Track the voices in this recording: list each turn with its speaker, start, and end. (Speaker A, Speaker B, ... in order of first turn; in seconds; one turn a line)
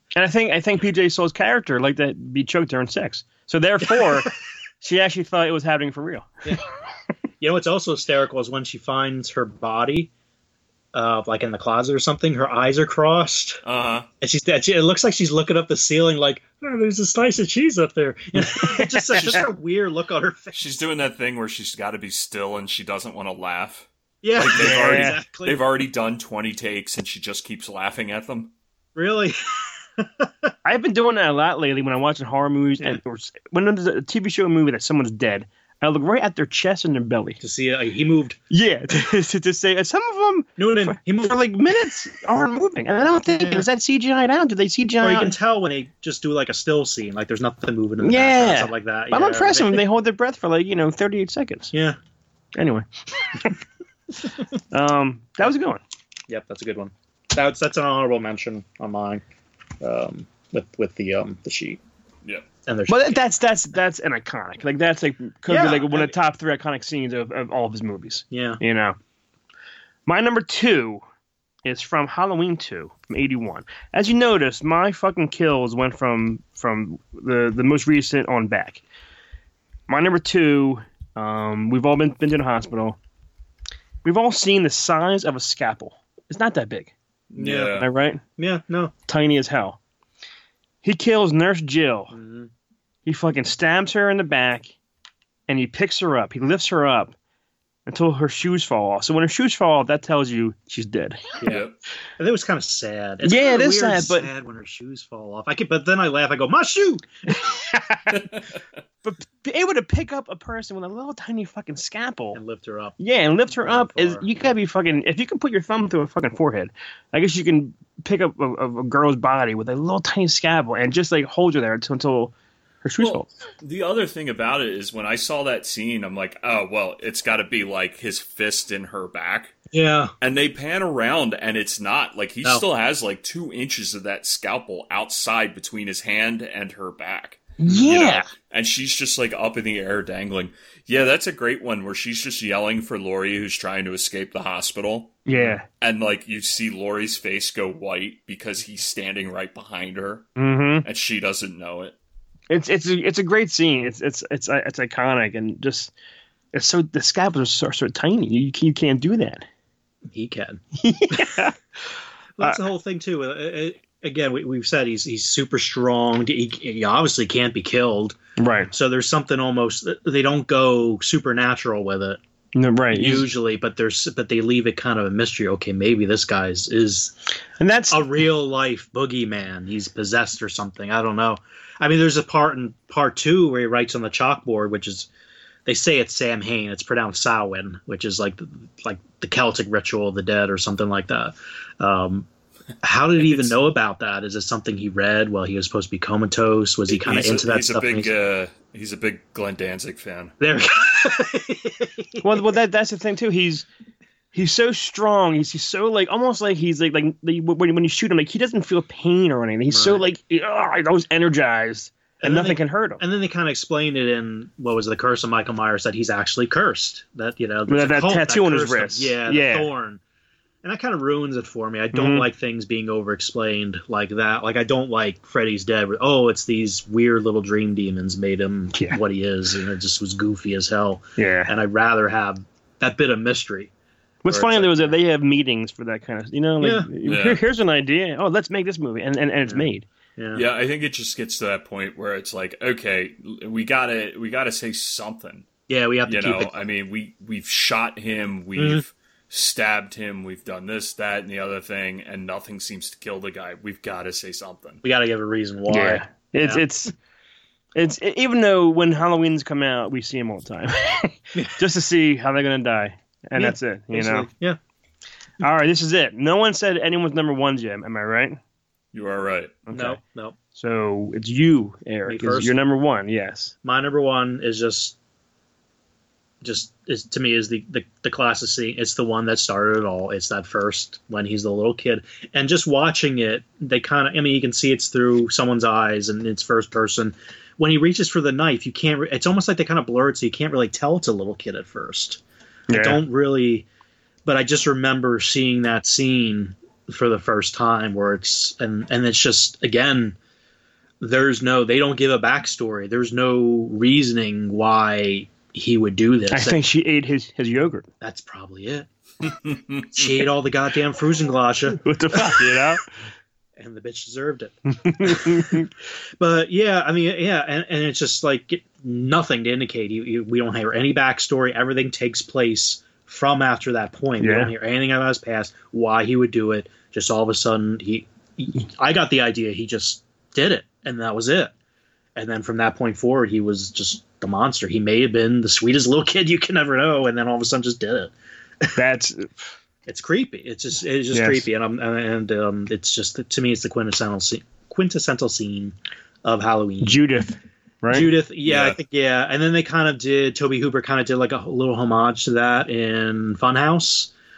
Speaker A: 0.2-6.5
Speaker B: 3.9-4.3
Speaker B: 7.4-10.1
Speaker B: 10.9-13.6
Speaker C: 13.7-14.1
Speaker B: 14.2-20.6
Speaker A: 18.4-19.4
Speaker C: 20.5-28.5
Speaker B: 24.2-25.6
Speaker A: 24.6-25.2
Speaker B: 28.9-30.5
Speaker A: 30.6-37.4
Speaker B: 37.4-38.4
Speaker A: 38.5-45.4
Speaker B: 40.6-41.4
Speaker B: 43.4-43.7
Speaker B: 45.0-49.8
Speaker A: 48.0-51.7
Speaker B: 51.7-52.0
Speaker A: 52.6-53.6
Speaker A: 54.7-55.8
Speaker B: 56.3-59.2
Speaker B: 59.8-61.8
Speaker B: 62.7-63.2
Speaker A: 62.9-69.0
Speaker B: 65.5-66.1
Speaker B: 68.3-68.6
Speaker A: 70.1-71.0
Speaker A: 71.7-78.8
Speaker A: 79.9-83.0
Speaker A: 84.0-86.9
Speaker C: 87.3-87.9
Speaker B: 87.4-87.8
Speaker A: 87.8-88.2
Speaker B: 88.4-88.9
Speaker A: 89.1-89.8
Speaker A: 90.8-92.2
Speaker B: 92.1-92.5
Speaker A: 93.1-94.7
Speaker A: 95.5-97.2
Speaker A: 97.9-101.4
Speaker C: 101.4-101.8
Speaker B: 102.2-107.3
Speaker A: 103.2-104.3
Speaker A: 107.3-108.2
Speaker C: 108.1-108.4
Speaker A: 109.0-112.4
Speaker B: 112.3-114.3
Speaker A: 113.0-122.3
Speaker A: 122.8-123.3
Speaker C: 123.0-129.6
Speaker B: 129.7-130.1
Speaker C: 130.2-152.0
Speaker A: 137.6-138.3
Speaker A: 145.3-145.7
Speaker B: 145.3-145.6
Speaker A: 150.4-150.9
Speaker A: 152.5-155.9
Speaker A: 156.5-159.5
Speaker B: 160.1-161.5
Speaker A: 160.8-162.6
Speaker B: 162.4-168.2
Speaker A: 168.4-168.7
Speaker B: 168.7-172.2
Speaker A: 172.6-173.3
Speaker B: 172.9-177.2
Speaker A: 177.6-178.1
Speaker B: 177.9-185.1
Speaker B: 185.7-192.3
Speaker B: 192.8-198.1
Speaker C: 193.2-193.5
Speaker C: 196.9-200.3
Speaker B: 200.4-202.4
Speaker A: 202.2-203.7
Speaker A: 204.3-213.0
Speaker B: 209.7-210.0
Speaker B: 212.2-220.0
Speaker A: 217.7-219.7
Speaker B: 220.6-233.7
Speaker A: 221.9-222.3
Speaker A: 231.2-231.5
Speaker A: 234.2-239.9
Speaker B: 234.3-234.9
Speaker B: 236.6-236.9
Speaker C: 237.0-237.4
Speaker B: 240.2-240.4
Speaker C: 240.3-245.5
Speaker B: 245.7-246.5
Speaker C: 246.1-254.8
Speaker B: 248.6-248.8
Speaker B: 254.8-256.6
Speaker A: 255.7-256.9
Speaker A: 257.8-264.3
Speaker B: 263.4-264.6
Speaker A: 265.4-268.4
Speaker C: 268.9-269.6
Speaker A: 269.7-270.0
Speaker B: 269.7-270.4
Speaker A: 270.5-273.5
Speaker B: 272.1-272.6
Speaker B: 273.6-275.0
Speaker B: 276.4-293.7
Speaker A: 292.7-293.0
Speaker B: 294.3-300.2
Speaker B: 301.0-306.6
Speaker A: 306.3-307.9
Speaker B: 308.0-308.9
Speaker C: 309.4-309.9
Speaker B: 309.9-312.7
Speaker A: 311.8-312.8
Speaker B: 313.6-331.5
Speaker A: 314.8-315.7
Speaker A: 324.2-324.5
Speaker B: 332.2-338.8
Speaker A: 338.8-339.3
Speaker B: 339.9-347.0
Speaker A: 341.1-341.5
Speaker A: 346.8-348.1
Speaker B: 347.9-354.1
Speaker C: 348.5-348.8